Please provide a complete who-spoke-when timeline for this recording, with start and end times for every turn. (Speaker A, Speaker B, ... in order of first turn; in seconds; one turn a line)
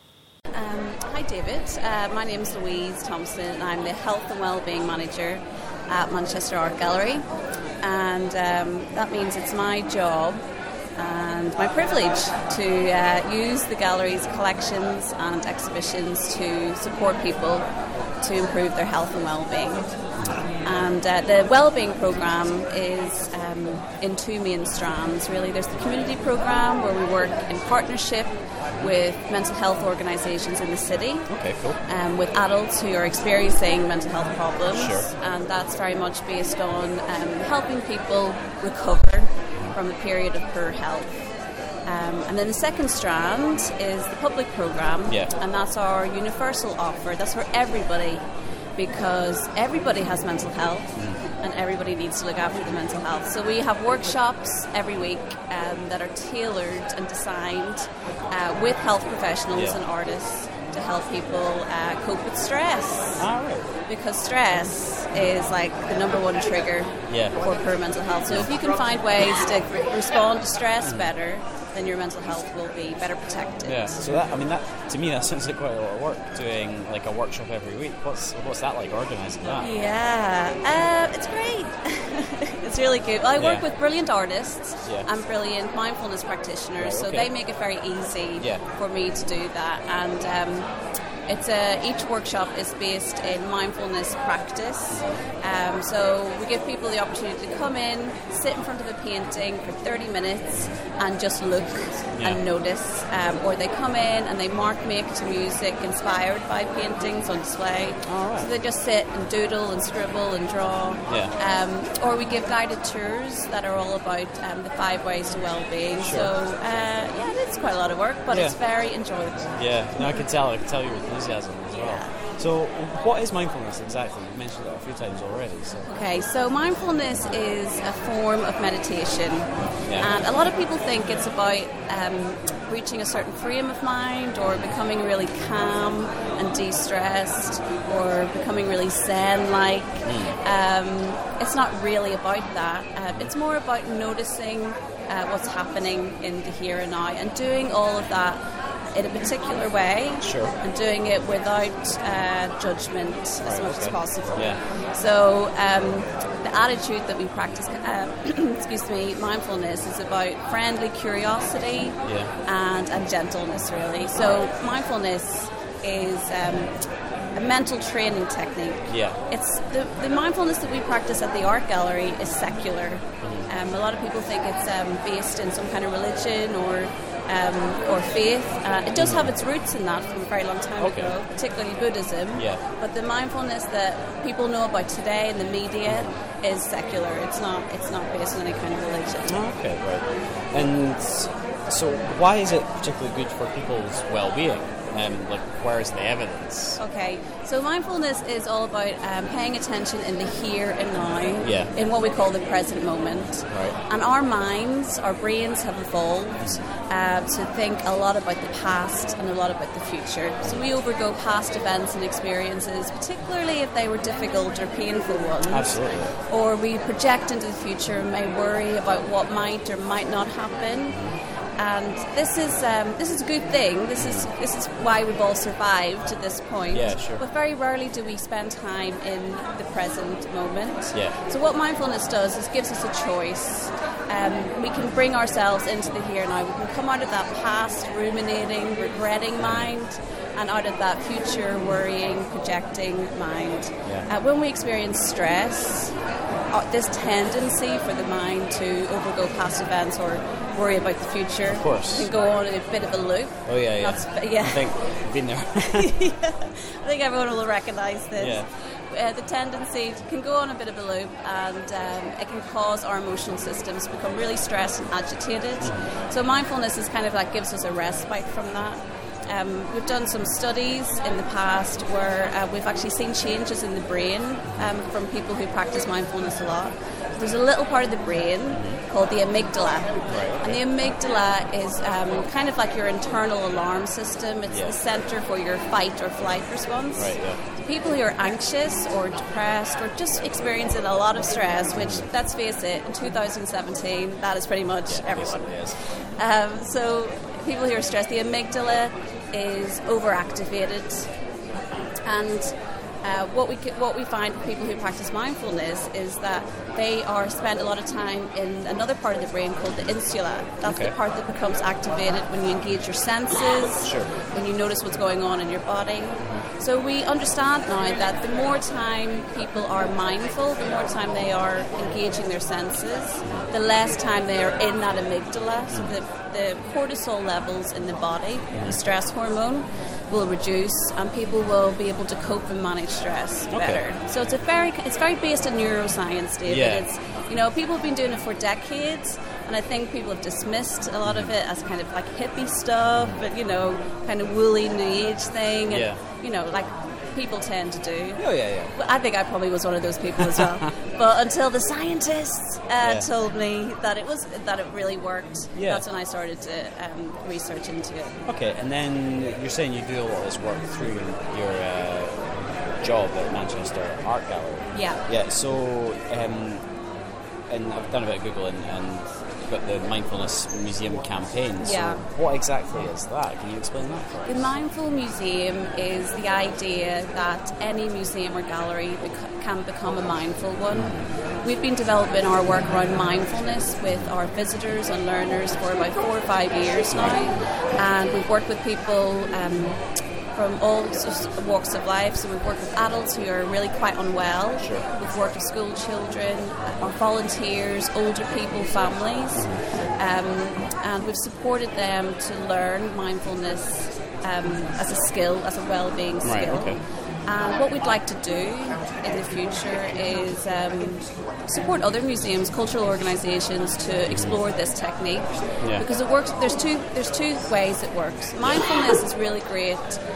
Speaker A: 0.5-7.2
Speaker A: 7.8-10.4
Speaker A: 11.0-17.7
Speaker A: 18.2-19.9
Speaker B: 20.2-20.4
Speaker A: 20.6-31.3
Speaker B: 31.3-31.8
Speaker A: 31.8-41.1
Speaker B: 34.7-35.1
Speaker A: 41.9-48.3
Speaker A: 48.8-63.3
Speaker B: 51.0-51.2
Speaker B: 59.5-59.8
Speaker B: 63.2-63.8
Speaker A: 63.9-73.9
Speaker B: 67.1-67.4
Speaker B: 70.8-71.1
Speaker B: 73.7-79.7
Speaker A: 79.5-90.7
Speaker B: 83.4-83.6
Speaker B: 86.8-87.3
Speaker B: 88.4-88.7
Speaker A: 91.3-120.2
Speaker B: 94.9-95.2
Speaker B: 102.1-102.4
Speaker B: 108.1-108.5
Speaker B: 111.1-111.3
Speaker B: 116.0-116.3
Speaker B: 118.3-118.6
Speaker B: 119.5-125.9
Speaker A: 121.7-122.1
Speaker A: 125.8-148.4
Speaker B: 129.8-130.1
Speaker B: 134.5-134.7
Speaker B: 140.0-140.4
Speaker A: 148.9-166.7
Speaker B: 150.2-150.6
Speaker B: 153.4-154.6
Speaker B: 162.0-162.3
Speaker A: 167.3-189.4
Speaker B: 168.9-169.2
Speaker B: 173.2-173.5
Speaker B: 179.0-179.3
Speaker B: 180.8-181.2
Speaker B: 182.3-182.6
Speaker B: 185.8-186.2
Speaker B: 189.3-196.8
Speaker A: 196.8-221.0
Speaker B: 201.4-201.7
Speaker B: 203.5-203.8
Speaker B: 215.5-216.1
Speaker B: 220.9-221.2
Speaker A: 221.6-245.9
Speaker B: 224.0-224.3
Speaker B: 226.7-227.2
Speaker B: 239.4-239.7
Speaker A: 246.5-254.8
Speaker B: 251.5-252.1
Speaker B: 253.4-255.9
Speaker A: 255.6-301.1
Speaker B: 258.1-258.5
Speaker B: 265.6-265.9
Speaker B: 278.5-278.8
Speaker B: 280.1-280.6
Speaker B: 284.5-284.8
Speaker B: 287.0-287.4
Speaker B: 291.8-292.1
Speaker B: 294.9-295.8
Speaker A: 302.1-302.5
Speaker A: 303.0-358.2
Speaker B: 310.6-310.9
Speaker B: 313.8-314.1
Speaker B: 316.2-316.4
Speaker B: 325.7-326.0
Speaker B: 328.5-328.8
Speaker B: 333.5-333.9
Speaker B: 336.4-336.9
Speaker B: 341.1-341.3
Speaker B: 345.7-346.0
Speaker B: 348.2-348.8
Speaker B: 350.2-350.7
Speaker B: 352.8-353.1
Speaker B: 355.6-355.9
Speaker B: 358.2-366.6
Speaker A: 364.7-365.0
Speaker B: 367.5-374.5
Speaker A: 371.6-372.1
Speaker A: 374.3-389.8
Speaker B: 380.7-381.1
Speaker B: 386.9-387.2
Speaker A: 390.4-420.0
Speaker B: 394.6-394.9
Speaker B: 399.4-399.6
Speaker B: 406.2-406.8
Speaker B: 414.1-414.4
Speaker B: 415.6-415.9
Speaker B: 418.4-418.7